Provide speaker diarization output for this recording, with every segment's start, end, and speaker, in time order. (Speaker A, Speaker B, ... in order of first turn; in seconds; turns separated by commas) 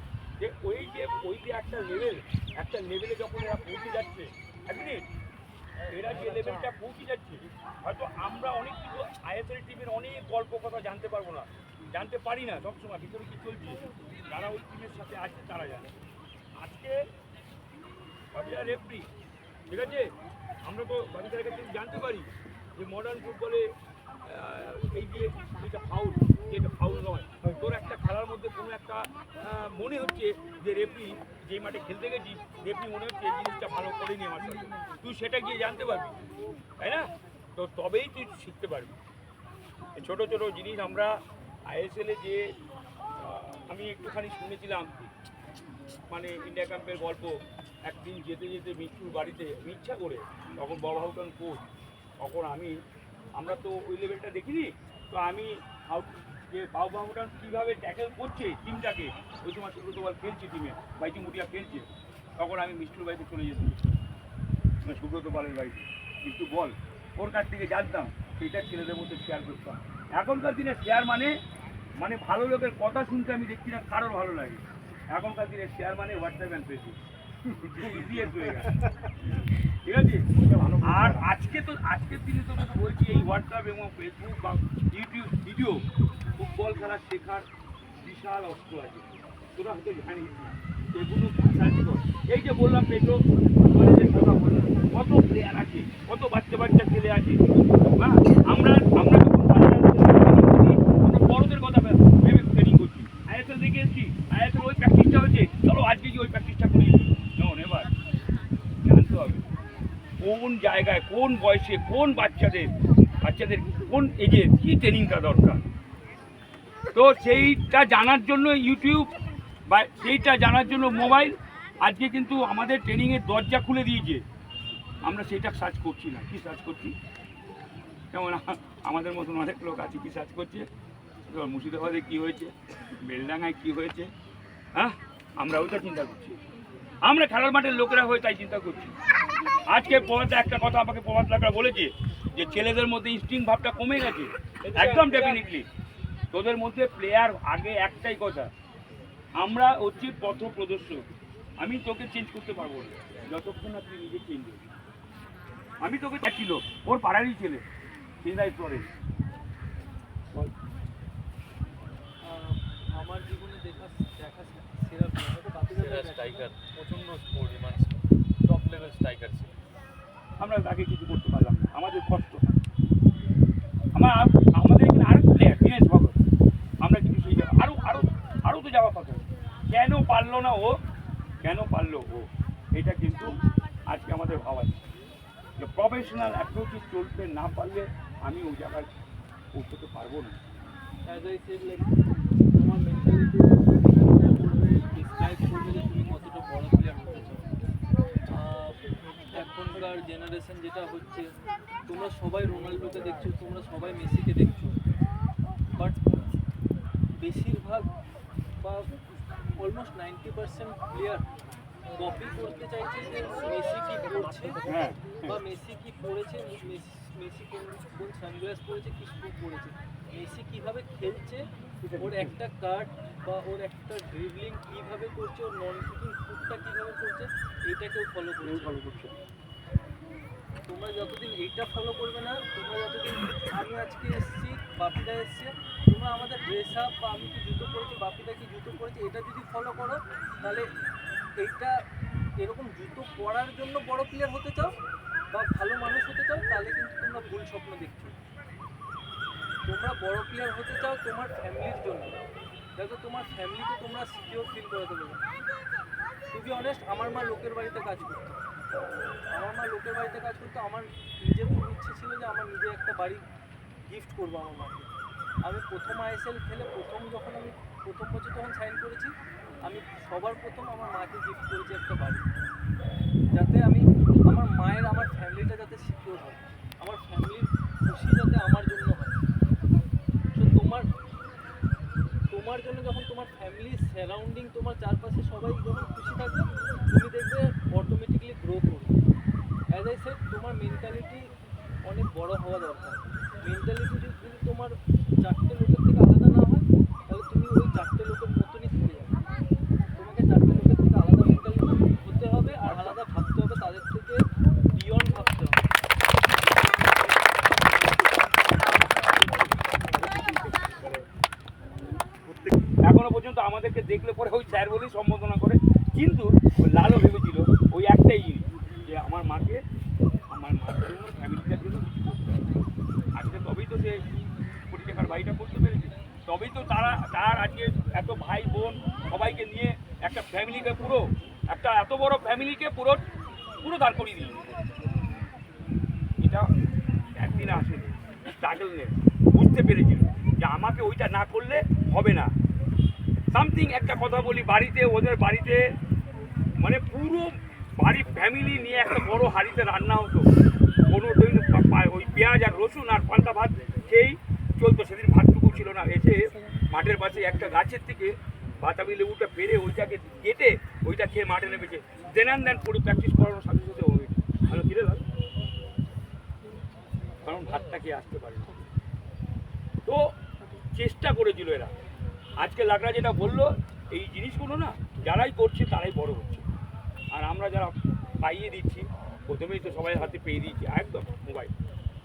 Speaker A: 0.4-5.0, Speaker A: 5.9-15.9, Speaker A: 16.6-17.0, Speaker A: 18.3-19.1, Speaker A: 19.7-20.1, Speaker A: 20.6-23.7, Speaker A: 24.2-36.2, Speaker A: 36.8-38.9, Speaker A: 40.0-41.1, Speaker A: 41.7-42.4, Speaker A: 43.2-45.1, Speaker A: 46.1-47.3, Speaker A: 47.9-51.6, Speaker A: 52.2-52.8, Speaker A: 53.4-61.9, Speaker A: 62.4-63.8, Speaker A: 64.8-71.3, Speaker A: 72.0-77.0, Speaker A: 77.6-78.8, Speaker A: 79.8-85.8, Speaker A: 86.4-87.5, Speaker A: 88.0-97.4, Speaker A: 98.0-107.9, Speaker A: 108.8-109.5, Speaker A: 110.2-115.6, Speaker A: 116.9-119.1, Speaker A: 119.7-124.2, Speaker A: 125.0-127.0, Speaker A: 128.1-130.7, Speaker A: 131.3-134.1, Speaker A: 134.7-136.4, Speaker A: 137.0-138.9, Speaker A: 139.7-145.7, Speaker B: 144.6-145.4, Speaker A: 146.3-148.5, Speaker A: 149.4-151.1, Speaker A: 151.6-154.6, Speaker A: 155.8-157.6, Speaker A: 158.2-158.9, Speaker B: 162.2-166.5, Speaker C: 165.7-169.5, Speaker A: 170.4-172.6, Speaker A: 173.9-176.2, Speaker A: 176.8-180.7, Speaker A: 181.4-183.3, Speaker A: 183.9-184.8, Speaker A: 185.6-188.9, Speaker A: 189.5-190.4, Speaker B: 191.1-191.9, Speaker B: 192.6-197.5, Speaker B: 198.3-198.8, Speaker B: 199.3-201.2, Speaker B: 201.9-204.8, Speaker B: 205.8-206.0, Speaker B: 207.2-207.9, Speaker B: 208.6-208.9, Speaker B: 209.6-211.2, Speaker B: 212.0-214.6, Speaker A: 214.7-215.4, Speaker B: 215.3-221.4, Speaker A: 221.8-222.4, Speaker B: 222.0-228.8, Speaker A: 228.4-229.1, Speaker B: 230.7-240.6, Speaker B: 241.4-241.7, Speaker B: 242.4-244.7, Speaker B: 245.3-248.2, Speaker B: 249.7-252.2, Speaker B: 252.8-255.2, Speaker B: 256.3-258.4, Speaker B: 259.3-263.2, Speaker B: 263.9-264.9, Speaker B: 265.5-269.1, Speaker B: 269.7-272.2, Speaker B: 273.4-279.2, Speaker B: 280.4-280.8, Speaker B: 282.3-288.9, Speaker B: 289.8-291.2, Speaker B: 291.8-299.1, Speaker B: 300.0-304.2, Speaker A: 302.6-303.0, Speaker B: 304.7-305.6, Speaker A: 310.0-311.0, Speaker A: 312.9-319.6, Speaker A: 320.3-322.4, Speaker A: 323.1-324.0, Speaker A: 324.7-333.0, Speaker A: 333.6-334.4, Speaker A: 336.2-336.5, Speaker A: 337.2-342.3, Speaker A: 343.3-345.6, Speaker A: 346.6-350.3, Speaker A: 350.9-365.0, Speaker A: 367.2-368.6, Speaker A: 370.8-371.7, Speaker A: 372.4-376.4, Speaker A: 377.1-381.5